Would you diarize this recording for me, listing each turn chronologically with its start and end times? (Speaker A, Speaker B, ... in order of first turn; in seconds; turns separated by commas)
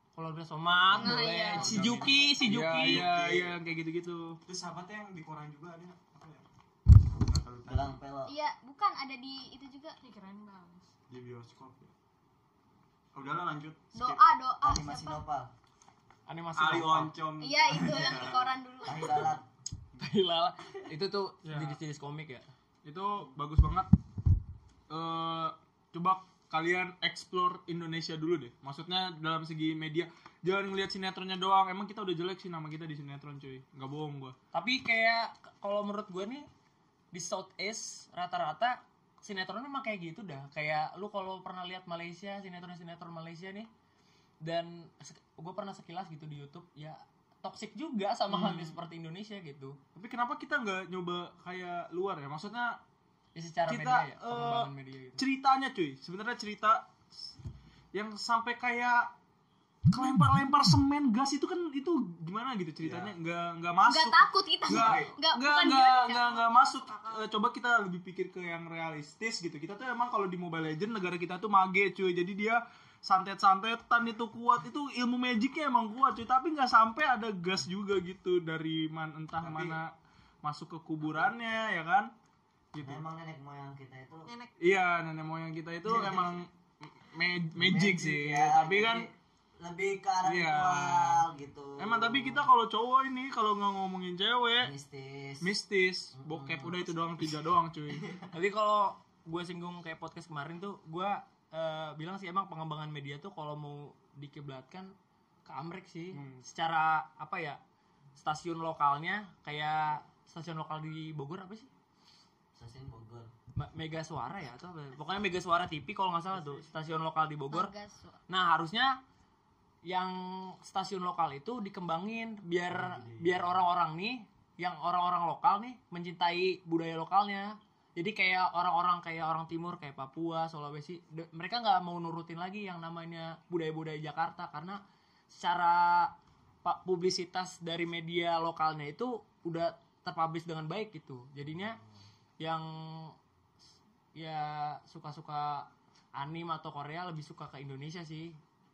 Speaker A: 0.1-3.1, Speaker B: 0.9-2.0, Speaker C: 1.5-4.4, Speaker D: 2.8-3.6, Speaker D: 4.5-6.5, Speaker D: 7.0-8.0, Speaker E: 7.7-8.3, Speaker B: 8.2-9.9, Speaker F: 10.0-10.9, Speaker D: 11.1-11.9, Speaker D: 13.1-14.2, Speaker B: 13.9-15.2, Speaker E: 14.6-15.5, Speaker A: 16.3-17.1, Speaker D: 16.5-19.3, Speaker B: 17.4-19.3, Speaker E: 18.8-19.4, Speaker A: 20.0-22.5, Speaker C: 21.4-21.8, Speaker C: 22.8-23.9, Speaker C: 24.9-34.4, Speaker A: 34.5-36.5, Speaker A: 37.1-43.7, Speaker A: 44.4-49.8, Speaker C: 48.3-48.8, Speaker C: 49.9-52.8, Speaker A: 53.3-55.2, Speaker C: 53.7-57.3, Speaker C: 57.9-59.1, Speaker C: 59.9-82.1, Speaker D: 62.8-63.1, Speaker B: 63.8-66.3, Speaker F: 66.1-67.3, Speaker D: 79.4-79.8, Speaker C: 82.7-83.0, Speaker E: 82.8-84.3, Speaker F: 84.2-84.5, Speaker C: 84.6-89.1, Speaker E: 85.8-86.4, Speaker E: 87.5-92.5, Speaker C: 90.2-91.2, Speaker C: 91.8-94.7, Speaker E: 94.6-95.5, Speaker C: 95.4-98.1, Speaker E: 96.1-97.3, Speaker A: 98.3-104.9, Speaker A: 105.5-107.6, Speaker C: 106.1-106.4, Speaker A: 108.2-111.7, Speaker E: 112.5-113.3, Speaker A: 113.5-117.7, Speaker B: 117.5-118.2, Speaker A: 118.3-119.0, Speaker A: 119.8-141.8, Speaker D: 122.7-123.5, Speaker A: 142.4-143.2, Speaker A: 144.1-148.4